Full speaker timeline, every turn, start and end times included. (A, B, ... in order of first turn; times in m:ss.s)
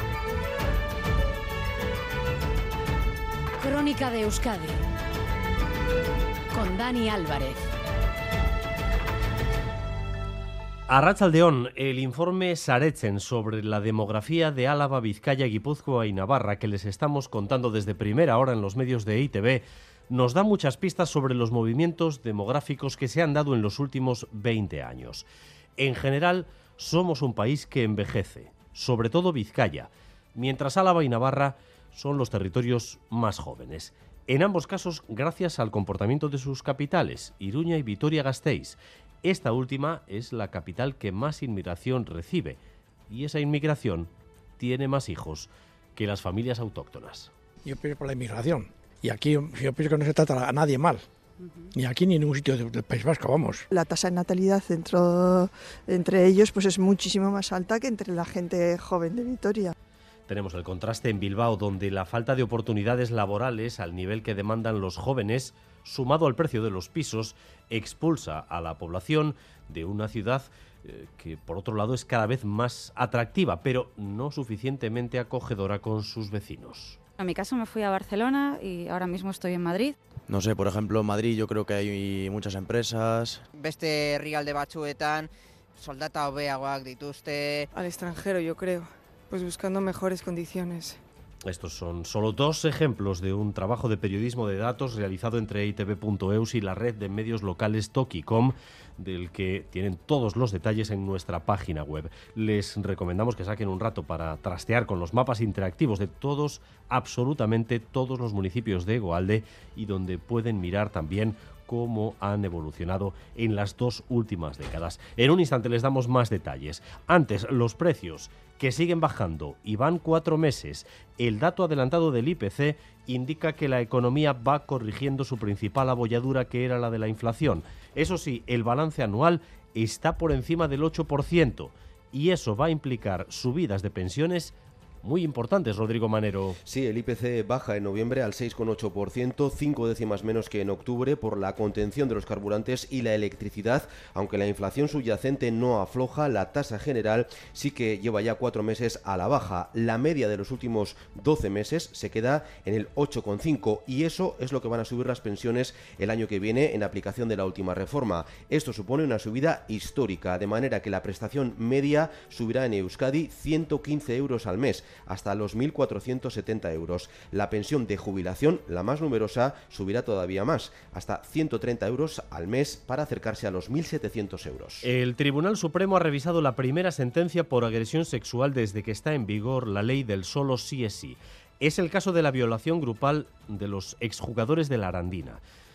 0:03.6-0:04.8 A
0:06.5-0:07.6 A
0:10.9-0:42.6 B
0:43.1-0:47.3 B
0:47.6-0:51.0 C
0:51.7-0:53.6 C
0:53.7-0:59.7 D
1:00.3-1:17.0 B
1:17.2-1:20.0 E
1:20.3-1:23.4 F
1:23.6-1:25.3 G
1:25.8-1:27.6 G
1:27.7-1:31.0 H
1:31.5-2:16.6 B
2:16.6-2:54.9 I
2:54.8-3:05.4 B